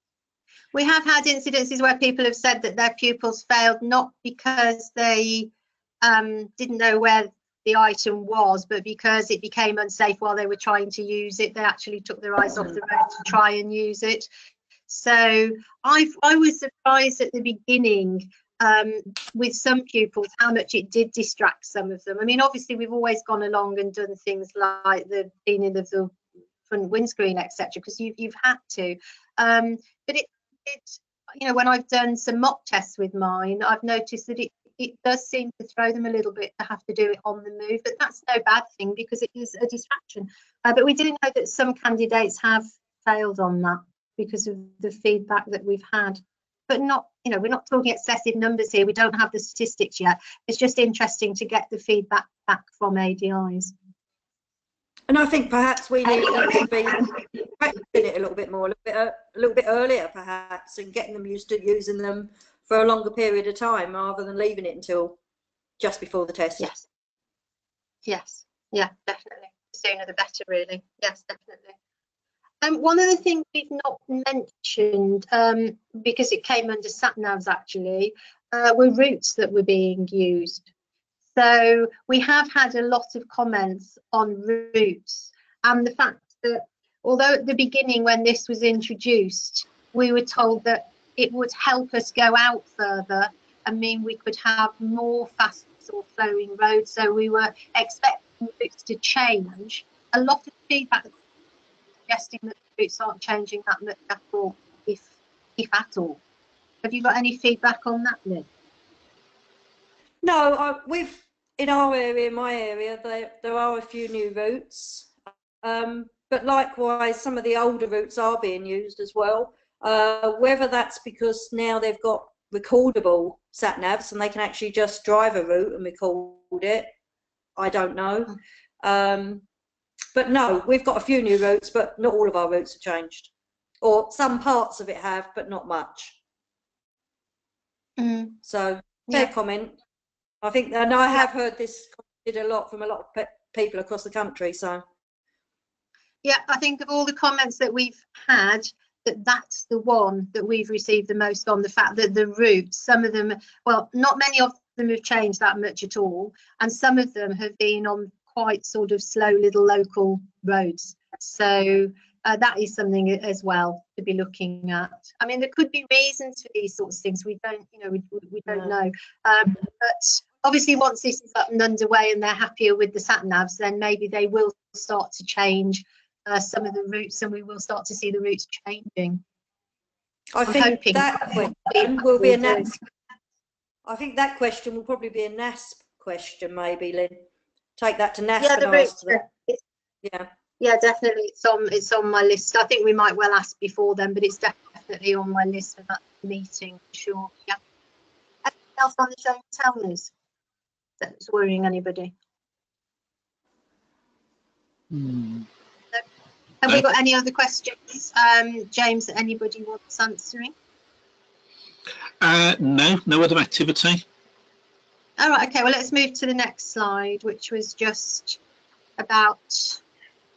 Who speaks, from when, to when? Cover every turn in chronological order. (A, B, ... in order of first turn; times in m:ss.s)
0:00.7-0:14.3 A
0:14.9-0:26.1 A
0:26.7-0:53.7 A
0:55.1-1:05.2 B
1:05.8-1:06.7 B
1:06.6-1:06.8 A
1:08.1-1:11.8 A
1:12.6-1:20.7 A
1:21.4-1:41.1 A
1:42.1-1:46.2 A
1:46.8-1:48.5 A
1:50.2-1:55.1 B
1:55.6-2:06.9 B
2:07.6-2:09.4 B
2:10.2-2:13.3 B
2:13.8-2:16.1 B
2:18.0-2:18.4 A
2:18.4-2:19.8 B
2:20.4-2:24.8 B
2:26.2-2:59.2 A
3:00.3-3:02.7 B
3:00.5-3:02.8 A
3:03.9-3:07.2 B
3:07.8-3:09.2 B
3:08.4-3:09.6 A
3:10.0-3:10.3 B
3:10.6-3:17.6 A
3:18.4-3:20.1 A
3:21.0-3:22.1 A
3:24.9-3:25.5 C
3:26.6-3:30.5 A
3:32.2-3:34.0 C
3:35.2-3:38.4 A
3:39.0-3:39.8 A